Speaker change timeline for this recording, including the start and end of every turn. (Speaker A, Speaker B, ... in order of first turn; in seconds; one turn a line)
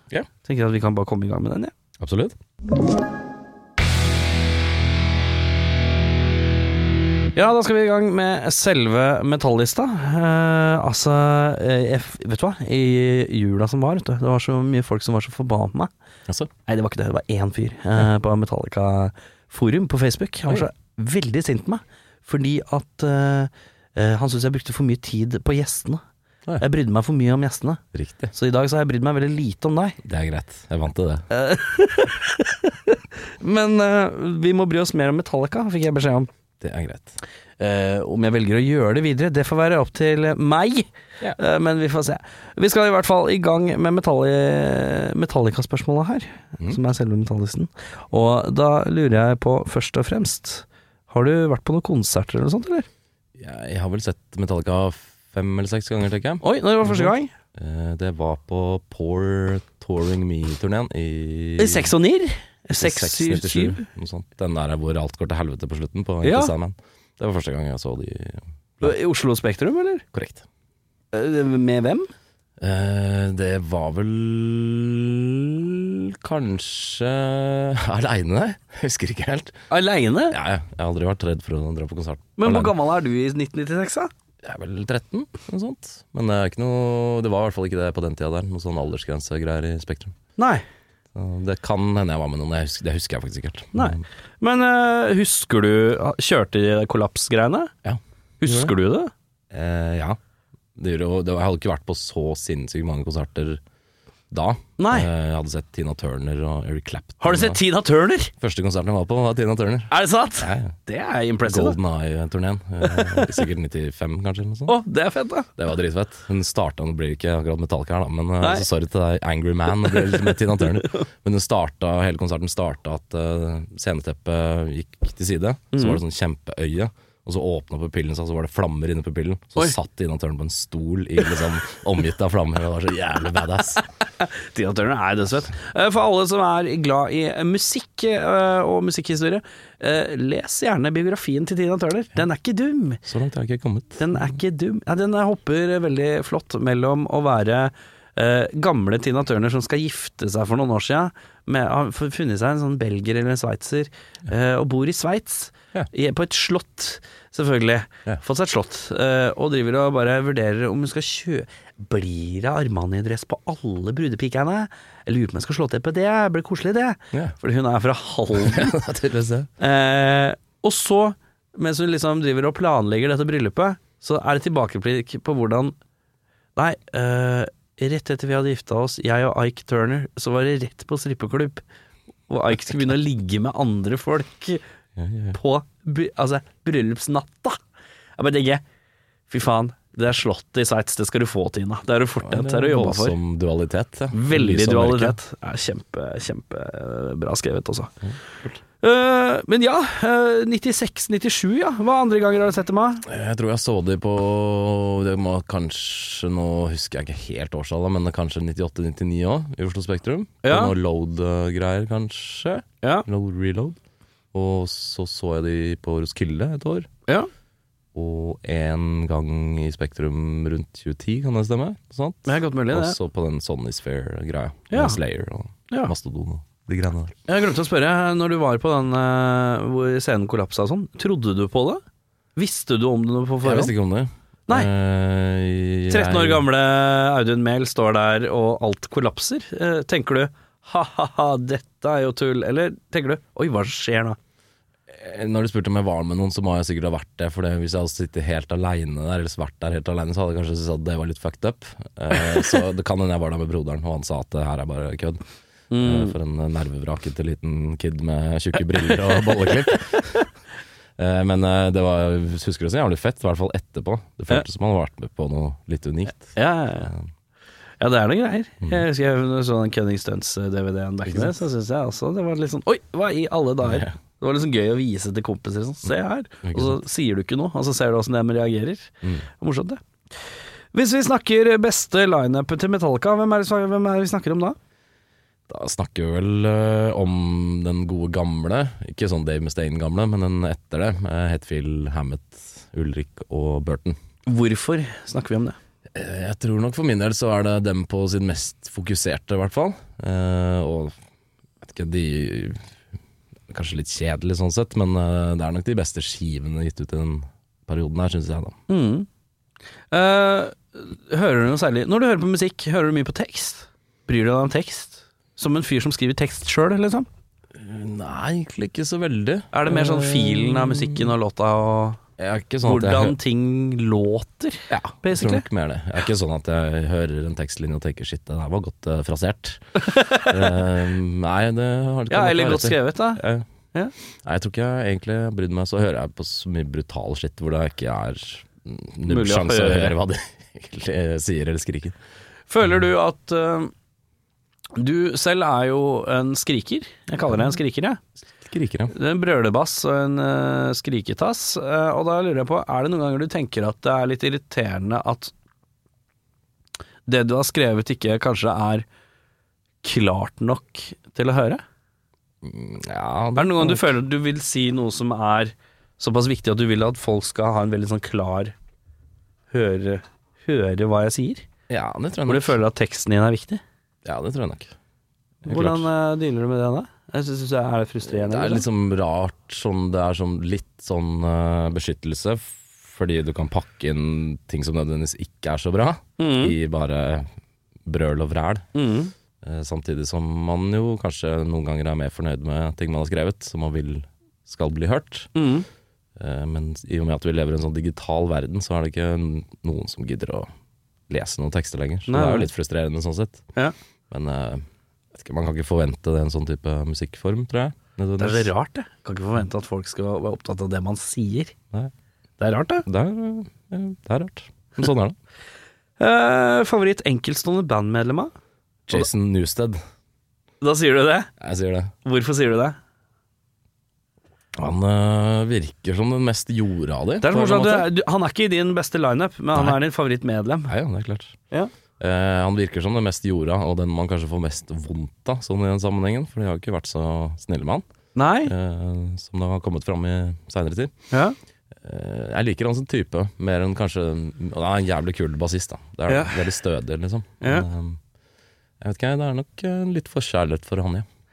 Speaker A: 0.5-1.7
Speaker B: 2.0-2.4
Speaker A: 7.3-15.9
Speaker A: 16.7-26.0
Speaker A: 26.6-27.8
Speaker B: 27.9-28.3
Speaker A: 28.3-30.0
Speaker B: 30.0-31.2
Speaker A: 31.3-36.3
Speaker B: 36.6-37.2
Speaker A: 37.6-52.9
Speaker B: 53.4-61.9
Speaker A: 56.4-57.3
Speaker A: 61.6-63.8
Speaker B: 62.8-68.9
Speaker A: 66.2-66.5
Speaker A: 68.8-70.0
Speaker B: 70.1-70.4
Speaker A: 71.1-72.1
Speaker B: 72.6-79.6
Speaker A: 79.7-80.4
Speaker B: 80.3-82.7
Speaker A: 82.4-84.1
Speaker B: 84.4-90.2
Speaker A: 90.4-90.6
Speaker B: 91.1-94.0
Speaker A: 93.7-97.7
Speaker B: 97.8-98.7
Speaker A: 98.4-99.1
Speaker B: 99.5-100.2
Speaker B: 100.8-103.6
Speaker B: 104.3-107.6
Speaker A: 104.8-105.1
Speaker A: 107.2-108.3
Speaker B: 108.4-110.7
Speaker A: 109.9-111.8
Speaker B: 111.5-114.8
Speaker A: 112.8-113.4
Speaker A: 114.7-115.5
Speaker B: 115.6-133.8
Speaker A: 118.4-118.7
Speaker A: 119.9-120.4
Speaker A: 125.7-126.0
Speaker A: 134.2-143.0
Speaker B: 143.0-144.1
Speaker A: 144.0-168.8
Speaker B: 168.4-169.5
Speaker A: 169.6-175.7
Speaker A: 176.6-181.6
Speaker A: 182.3-184.6
Speaker B: 184.9-185.4
Speaker A: 185.3-187.6
Speaker A: 188.2-188.6
Speaker A: 189.3-193.2
Speaker B: 192.2-195.2
Speaker A: 194.1-197.9
Speaker B: 198.0-198.6
Speaker A: 198.8-203.0
Speaker B: 203.0-213.8
Speaker A: 210.4-210.7
Speaker A: 212.8-213.1
Speaker B: 214.3-216.9
Speaker B: 217.9-227.1
Speaker A: 222.2-223.0
Speaker A: 224.7-225.0
Speaker A: 227.3-231.8
Speaker A: 232.3-233.7
Speaker B: 233.4-236.4
Speaker A: 235.9-244.2
Speaker B: 244.9-255.2
Speaker A: 255.7-256.1
Speaker B: 255.8-260.3
Speaker B: 261.0-267.0
Speaker A: 266.3-266.9
Speaker A: 267.8-279.8
Speaker B: 271.1-271.3
Speaker B: 273.6-273.9
Speaker B: 276.4-276.8
Speaker A: 280.7-284.6
Speaker B: 285.5-294.0
Speaker A: 294.3-295.6
Speaker B: 295.9-300.9
Speaker B: 301.6-302.6
Speaker B: 303.5-308.6
Speaker A: 308.7-309.1
Speaker A: 309.9-317.1
Speaker B: 317.5-321.1
Speaker A: 319.5-322.0
Speaker B: 322.2-323.2
Speaker A: 322.6-325.4
Speaker B: 324.7-333.5
Speaker A: 329.8-330.4
Speaker A: 332.1-333.2
Speaker B: 334.2-341.9
Speaker A: 339.1-339.9
Speaker A: 342.5-343.7
Speaker A: 344.7-348.0
Speaker B: 348.4-348.9
Speaker A: 348.9-355.3
Speaker A: 357.1-358.8
Speaker A: 359.8-361.6
Speaker B: 362.4-363.9
Speaker A: 363.4-368.5
Speaker A: 369.5-371.4
Speaker B: 371.7-372.6
Speaker A: 372.3-373.6
Speaker B: 374.0-374.7
Speaker B: 375.4-375.9
Speaker A: 375.4-378.6
Speaker B: 378.1-387.3
Speaker A: 386.2-386.6
Speaker B: 387.8-388.7
Speaker A: 388.7-389.1
Speaker B: 389.4-395.3
Speaker A: 395.3-395.7
Speaker B: 396.2-400.5
Speaker B: 401.1-403.4
Speaker A: 402.1-402.5
Speaker B: 404.1-408.5
Speaker A: 408.2-411.5
Speaker A: 412.4-412.9
Speaker B: 412.8-415.1
Speaker A: 416.0-418.3
Speaker B: 418.9-419.8
Speaker A: 420.6-421.3
Speaker B: 421.4-421.9
Speaker A: 422.0-422.8
Speaker B: 424.6-427.9
Speaker A: 427.2-430.7
Speaker B: 429.5-429.8
Speaker B: 430.7-431.4
Speaker B: 432.0-437.8
Speaker A: 438.1-438.5
Speaker B: 438.4-440.9
Speaker B: 441.8-448.0
Speaker A: 446.1-446.5
Speaker A: 447.4-447.7
Speaker B: 448.8-451.1